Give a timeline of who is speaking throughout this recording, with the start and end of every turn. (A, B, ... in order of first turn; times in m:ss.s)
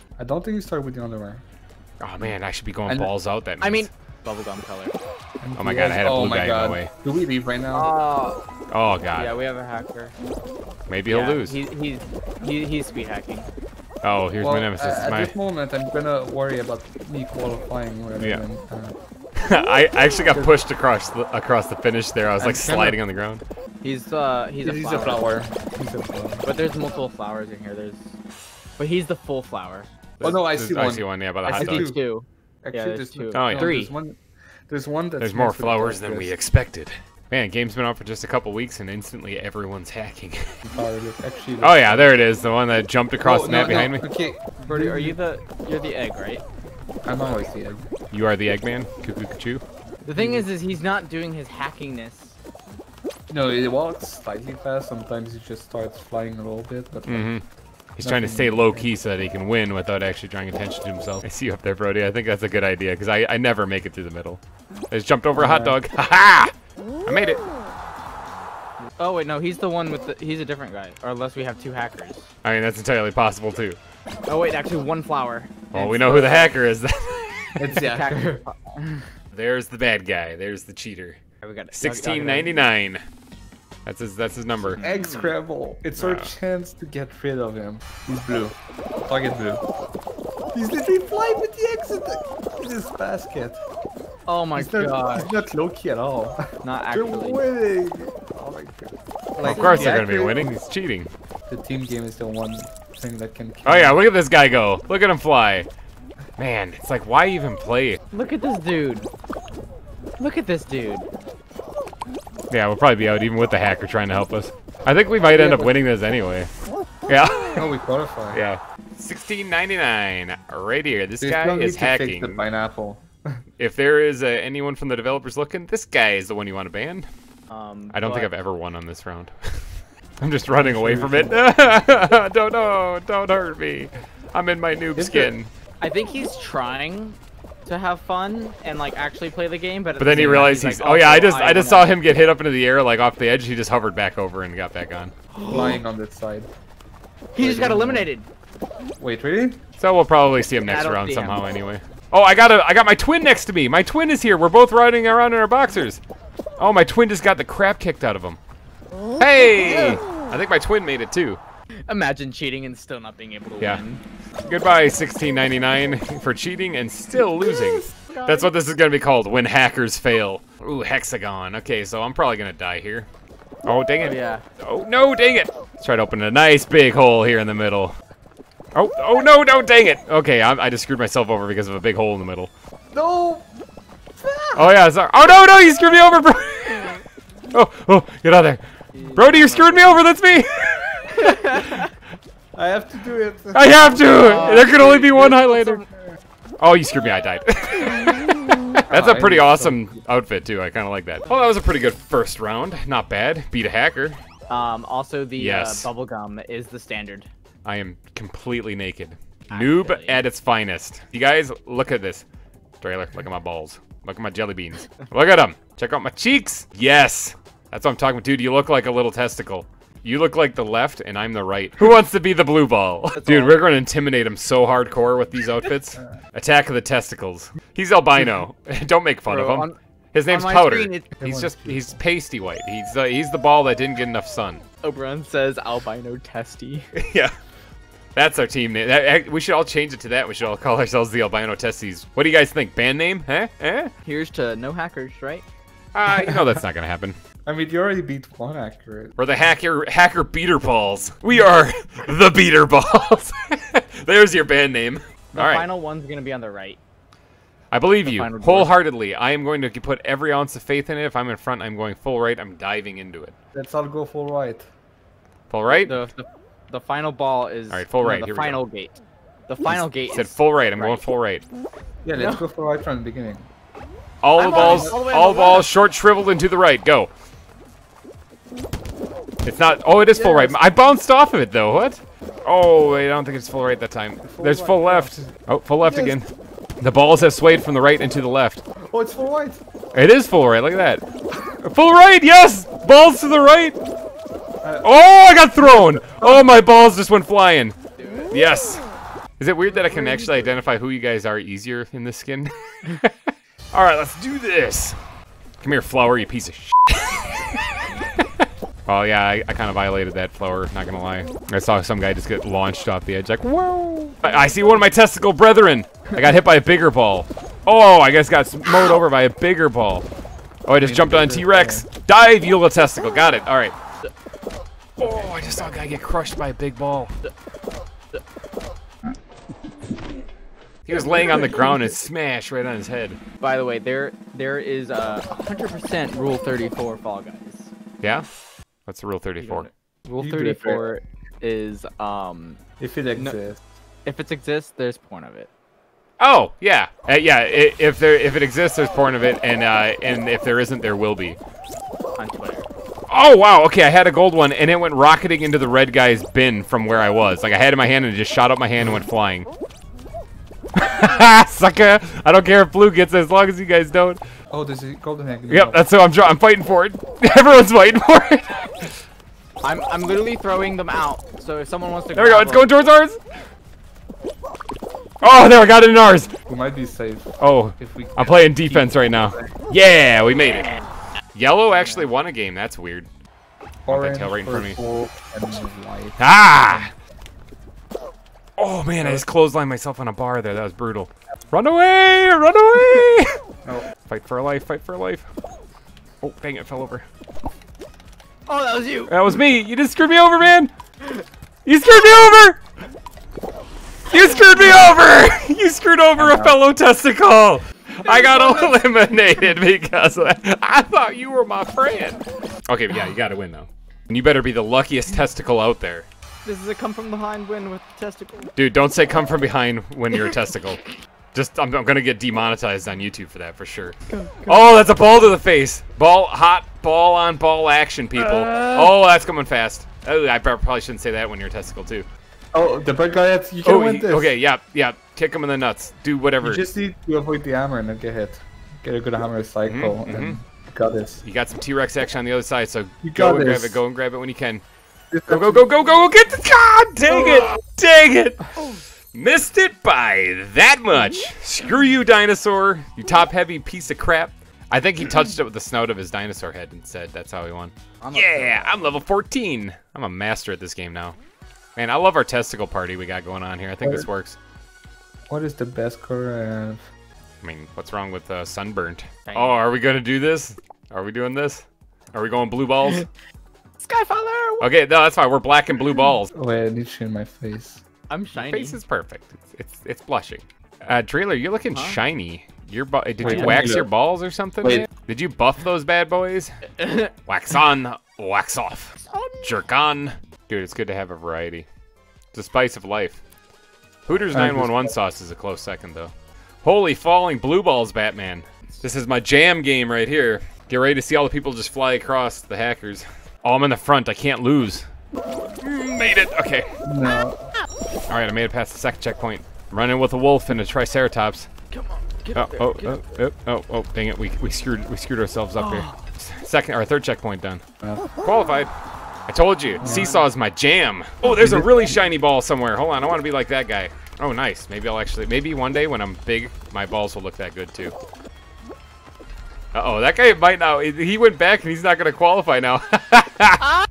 0:00.2-0:01.4 A
0:02.0-0:03.9 B
0:03.6-0:04.9 C
0:05.4-0:07.9 A
0:05.6-0:06.9 B
0:07.7-0:08.4 C
0:08.7-0:09.4 B
0:09.1-0:10.2 C
0:10.9-0:11.6 B
0:11.1-0:13.5 C
0:14.0-0:15.4 B
0:14.4-0:19.0 A
0:18.2-0:18.4 B
0:19.4-0:23.4 B
0:20.3-0:20.6 A
0:22.4-0:23.0 A
0:23.8-0:25.2 C
0:24.6-0:26.4 A
0:26.4-0:28.2 C
0:28.8-0:29.9 C
0:30.2-0:31.9 B
0:30.2-0:32.0 A
0:31.5-0:33.9 C
0:32.6-0:36.4 A
0:33.3-0:33.7 B
0:35.2-0:40.5 B
0:40.7-0:42.2 A
0:41.6-0:44.0 B
0:43.2-0:45.2 A
0:44.6-0:46.4 C
0:47.0-0:47.8 A
0:48.1-0:49.6 B
0:50.0-0:52.4 C
0:50.1-0:50.5 A
0:53.3-0:57.3 A
0:57.0-0:57.4 B
0:58.0-1:06.5 B
0:58.0-0:58.9 A
1:05.3-1:05.8 A
1:07.0-1:07.4 B
1:09.0-1:12.3 C
1:12.4-1:13.8 B
1:14.3-1:16.5 C
1:15.7-1:17.7 B
1:16.0-1:16.4 A
1:17.6-1:18.4 A
1:17.7-1:19.1 C
1:19.3-1:21.2 B
1:21.4-1:22.5 C
1:21.7-1:23.0 B
1:23.9-1:24.8 B
1:24.6-1:29.6 A
1:24.8-1:25.3 C
1:26.0-1:26.3 B
1:30.5-1:33.6 A
1:34.2-1:35.3 C
1:34.6-1:40.5 A
1:36.6-1:37.4 C
1:39.4-1:40.2 C
1:39.4-1:41.1 B
1:41.5-1:44.0 A
1:43.6-1:45.7 B
1:46.4-1:48.0 B
1:48.1-1:49.1 C
1:50.2-1:51.1 C
1:52.5-1:56.5 B
1:55.2-1:55.8 A
1:57.1-1:57.7 B
1:57.5-1:58.4 A
1:58.3-2:02.4 B
2:01.2-2:03.4 A
2:03.6-2:07.1 B
2:07.5-2:08.3 C
2:07.9-2:09.7 B
2:10.2-2:15.5 B
2:10.6-2:11.5 A
2:15.0-2:15.3 A
2:15.8-2:22.0 C
2:20.0-2:25.1 B
2:20.1-2:20.5 A
2:25.3-2:25.8 C
2:25.5-2:26.5 A
2:27.3-2:28.3 C
2:27.4-2:28.1 A
2:29.0-2:29.6 A
2:29.8-2:36.0 B
2:30.6-2:31.4 C
2:36.6-2:38.4 B
2:39.2-2:41.4 B
2:39.6-2:40.0 C
2:41.9-2:44.0 C
2:44.4-2:53.1 B
2:48.0-2:48.5 C
2:53.7-2:57.9 B
2:54.0-2:54.4 C
2:58.8-3:02.5 B
3:02.9-3:03.5 A
3:04.2-3:04.7 A
3:04.5-3:07.0 B
3:07.5-3:08.6 B
3:08.9-3:10.0 C
3:09.2-3:11.8 B
3:11.1-3:11.9 C
3:12.6-3:14.9 A
3:13.5-3:15.8 B
3:14.1-3:16.1 C
3:16.6-3:24.2 B
3:18.9-3:19.9 A
3:24.5-3:27.3 C
3:25.4-3:25.9 B
3:27.6-3:32.2 B
3:29.5-3:30.2 C
3:32.8-3:54.6 B
3:43.1-3:43.7 C
3:45.9-3:46.2 A
3:49.3-3:49.8 C
3:50.3-3:51.1 C
3:51.2-3:52.0 A
3:54.8-3:56.9 C
3:57.0-3:57.3 B
3:58.2-4:03.9 B
4:04.0-4:05.5 C
4:05.9-4:07.2 B
4:06.1-4:06.5 A
4:07.5-4:09.2 A
4:09.2-4:15.7 B
4:15.3-4:16.8 C
4:17.7-4:23.3 B
4:18.0-4:18.7 C
4:23.5-4:24.7 A
4:25.5-4:26.0 B
4:25.7-4:29.0 C
4:27.7-4:28.6 B
4:29.5-4:31.1 C
4:29.7-4:31.4 B
4:32.0-4:33.5 A
4:32.2-4:32.4 C
4:34.2-4:37.1 B
4:34.4-4:35.7 C
4:34.5-4:35.0 A
4:39.4-4:46.3 B
4:40.1-4:40.6 A
4:44.2-4:46.2 A
4:46.8-4:48.6 B
4:48.8-4:49.6 A
4:49.9-4:51.0 B
4:51.6-4:53.8 B
4:54.6-4:54.9 A
4:54.8-4:57.8 B
4:55.6-4:56.6 A
4:58.0-4:58.4 C
4:58.3-4:58.8 B
4:59.4-5:03.1 B
5:03.7-5:05.0 B
5:05.6-5:20.1 B
5:20.7-5:23.8 B
5:20.8-5:21.9 A
5:25.0-5:27.1 B
5:25.0-5:25.3 C
5:30.9-5:33.2 B
5:31.2-5:31.5 A
5:33.4-5:37.7 C
5:38.9-5:39.7 B
5:39.4-5:42.6 C
5:40.2-5:40.9 A
5:42.8-5:43.6 A
5:44.0-5:45.5 C
5:46.2-5:51.4 B
5:52.2-5:52.7 C
5:53.1-5:59.5 B
6:00.8-6:04.2 B
6:04.5-6:05.8 A
6:05.5-6:08.9 B
6:09.6-6:12.7 C
6:12.2-6:13.2 B
6:15.2-6:16.3 B
6:16.5-6:19.6 A
6:17.4-6:20.8 B
6:21.4-6:23.1 B
6:21.7-6:22.0 C
6:23.9-6:26.9 A
6:23.9-6:24.8 B
6:26.2-6:26.9 B
6:28.6-6:33.3 B
6:34.1-6:35.3 B
6:36.2-6:37.0 B
6:38.5-6:39.2 C
6:39.1-6:40.7 B
6:41.7-6:42.6 B
6:44.1-6:56.1 B
6:46.2-6:46.6 A
6:48.0-6:48.8 C
6:56.4-6:58.5 C
6:58.6-7:00.8 B
7:01.3-7:12.1 B
7:04.1-7:04.7 C
7:08.2-7:08.9 A
7:12.5-7:14.4 A
7:13.6-7:16.7 B
7:16.4-7:21.2 A
7:19.7-7:20.4 B
7:21.2-7:24.6 B
7:23.0-7:23.8 A
7:25.1-7:25.7 A
7:25.3-7:28.6 B
7:29.1-7:41.2 B
7:38.0-7:38.9 C
7:41.8-7:44.4 B
7:43.8-7:44.1 A
7:45.3-7:46.9 A
7:47.4-7:53.1 B
7:49.3-7:49.6 C
7:53.8-7:54.7 C
7:54.6-7:56.3 B
7:56.3-7:57.8 A
7:58.1-7:58.8 C
7:58.4-8:06.5 B
8:01.7-8:02.0 C
8:03.2-8:03.9 A
8:03.3-8:03.6 C
8:04.6-8:04.9 A
8:06.8-8:07.1 C
8:07.3-8:11.7 B
8:09.0-8:09.6 C
8:12.3-8:13.2 B
8:14.1-8:16.1 B
8:14.3-8:14.9 A
8:16.6-8:24.9 B
8:25.6-8:26.6 B
8:26.8-8:27.4 A
8:28.1-8:31.5 B
8:31.7-8:33.2 C
8:32.4-8:37.6 B
8:35.6-8:36.0 C
8:37.8-8:38.1 A
8:38.2-8:38.7 B
8:39.3-8:48.0 B
8:39.8-8:40.2 A
8:39.8-8:40.2 C
8:41.2-8:42.0 A
8:49.7-8:53.7 B